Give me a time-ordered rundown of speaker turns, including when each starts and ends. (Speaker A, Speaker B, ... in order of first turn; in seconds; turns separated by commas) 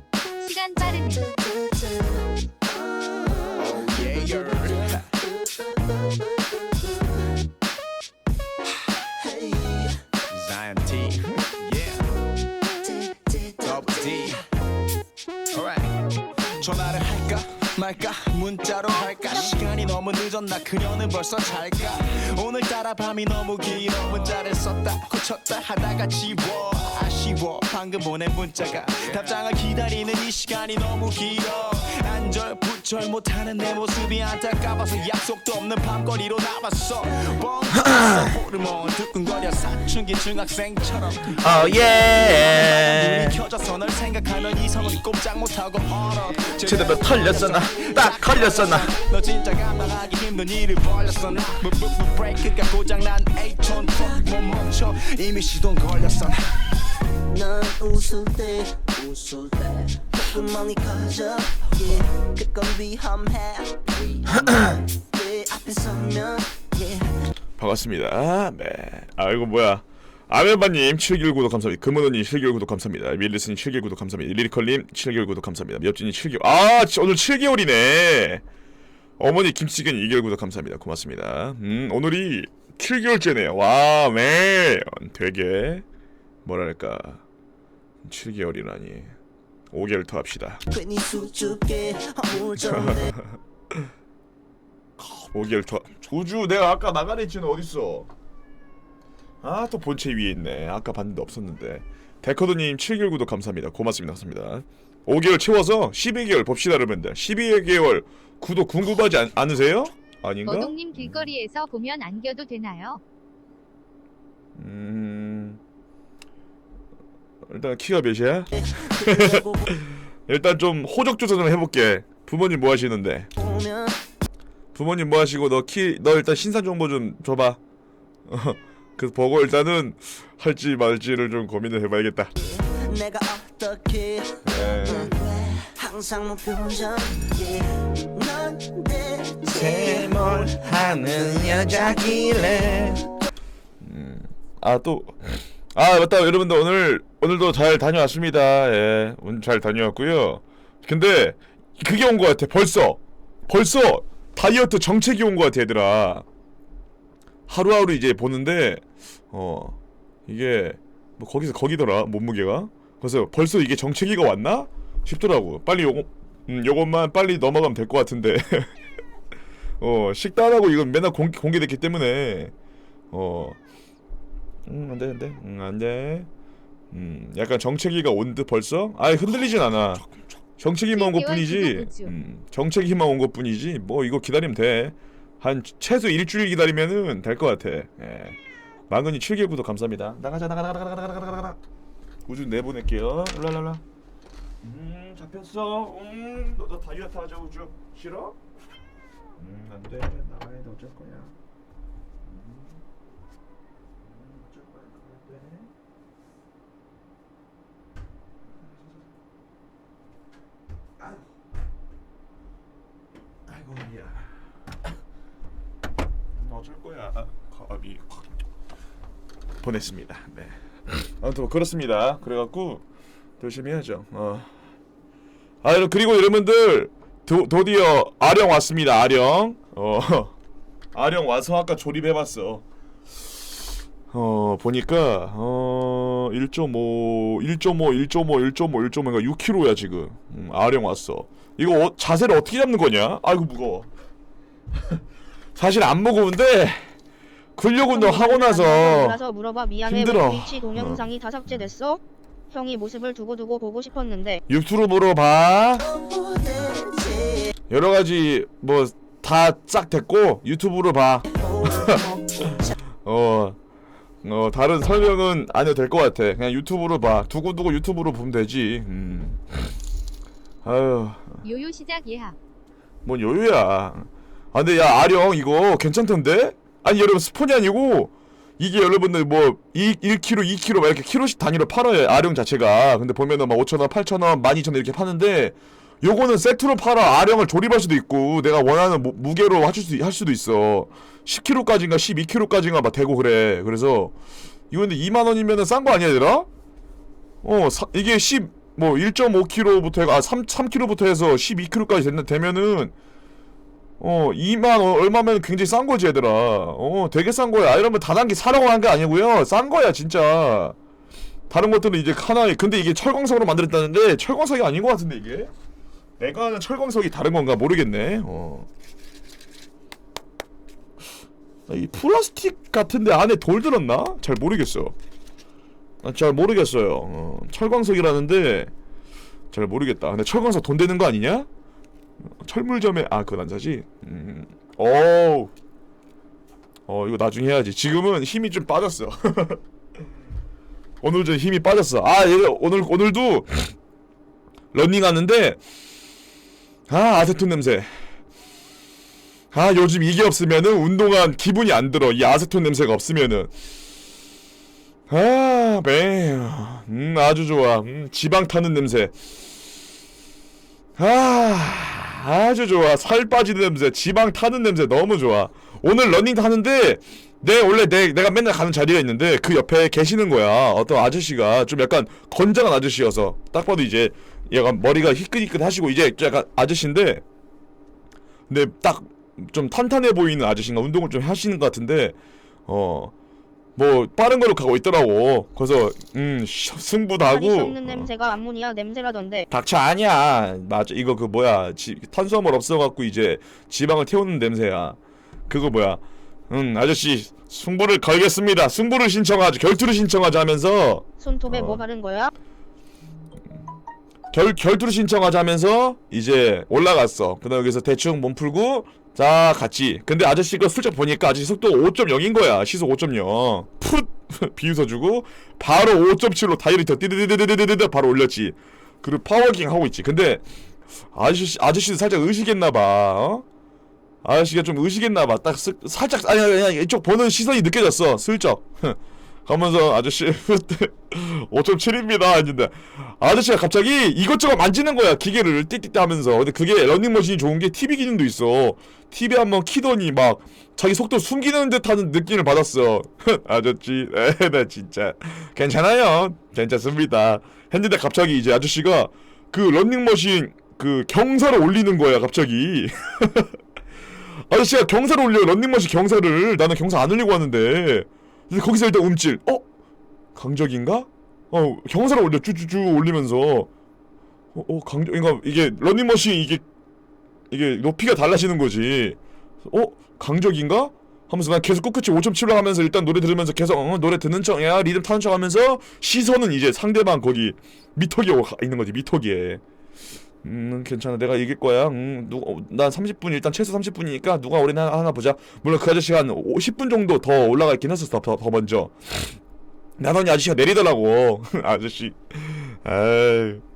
Speaker A: 0.4-1.3, Speaker B: 1.4-7.4, Speaker C: 3.6-5.1, Speaker B: 9.2-10.0, Speaker C: 10.3-12.0, Speaker B: 12.8-14.1, Speaker C: 13.6-14.5, Speaker C: 15.5-15.9, Speaker C: 16.6-56.5, Speaker D: 37.7-38.3, Speaker D: 41.4-43.4, Speaker D: 46.6-48.9, Speaker B: 57.2-67.3, Speaker D: 67.6-78.4, Speaker D: 79.2-85.8, Speaker D: 86.5-87.2, Speaker D: 88.0-89.2, Speaker D: 89.7-90.6, Speaker B: 90.7-93.1, Speaker D: 95.3-98.1, Speaker D: 99.4-111.3, Speaker A: 110.5-113.0, Speaker D: 114.6-115.6, Speaker D: 117.5-123.3, Speaker B: 118.5-119.7, Speaker B: 123.4-124.0, Speaker D: 124.7-127.6, Speaker D: 128.3-132.3, Speaker B: 132.4-143.1, Speaker D: 134.4-135.1, Speaker D: 139.5-143.1, Speaker D: 143.8-156.2, Speaker D: 157.5-159.8, Speaker D: 160.3-168.7, Speaker D: 169.8-172.5, Speaker D: 173.1-173.6, Speaker D: 174.7-176.3, Speaker D: 176.9-180.1, Speaker D: 180.6-188.4, Speaker A: 180.9-182.1, Speaker D: 188.9-191.6, Speaker D: 192.3-193.8, Speaker D: 194.6-198.4, Speaker D: 199.4-201.3, Speaker D: 202.2-202.8, Speaker D: 204.0-205.7, Speaker D: 211.0-211.3, Speaker D: 213.5-214.5, Speaker D: 216.4-218.3, Speaker D: 219.6-222.8, Speaker D: 223.4-224.5, Speaker D: 225.6-230.3, Speaker D: 230.9-232.6, Speaker D: 234.1-243.9, Speaker D: 245.6-246.9, Speaker D: 247.6-249.2, Speaker E: 247.9-254.4, Speaker D: 249.8-251.7, Speaker D: 254.5-255.9, Speaker B: 255.8-257.5, Speaker D: 257.7-262.0, Speaker B: 261.3-262.8, Speaker D: 263.0-263.6, Speaker D: 264.2-269.7, Speaker D: 270.6-271.4, Speaker A: 271.4-272.4, Speaker D: 273.1-294.1, Speaker D: 294.7-296.5, Speaker D: 297.4-302.9, Speaker D: 304.0-310.8, Speaker D: 311.5-315.5, Speaker D: 316.2-318.7, Speaker D: 321.7-324.9, Speaker D: 326.0-328.7, Speaker D: 329.5-331.5, Speaker D: 332.4-335.5, Speaker D: 336.9-339.6, Speaker D: 341.0-343.8, Speaker D: 344.7-345.6, Speaker D: 346.9-347.9, Speaker D: 349.5-353.5, Speaker D: 355.1-359.1, Speaker D: 361.0-377.2, Speaker D: 378.5-382.2, Speaker D: 382.7-383.1, Speaker D: 383.8-388.1, Speaker E: 387.3-389.5, Speaker D: 389.5-401.8, Speaker E: 401.2-402.3, Speaker D: 404.3-420.4, Speaker D: 421.1-423.4, Speaker D: 424.2-453.5, Speaker D: 454.5-459.6, Speaker D: 460.4-463.7, Speaker D: 464.5-466.6, Speaker D: 467.5-479.6, Speaker D: 480.4-489.4, Speaker D: 490.0-493.6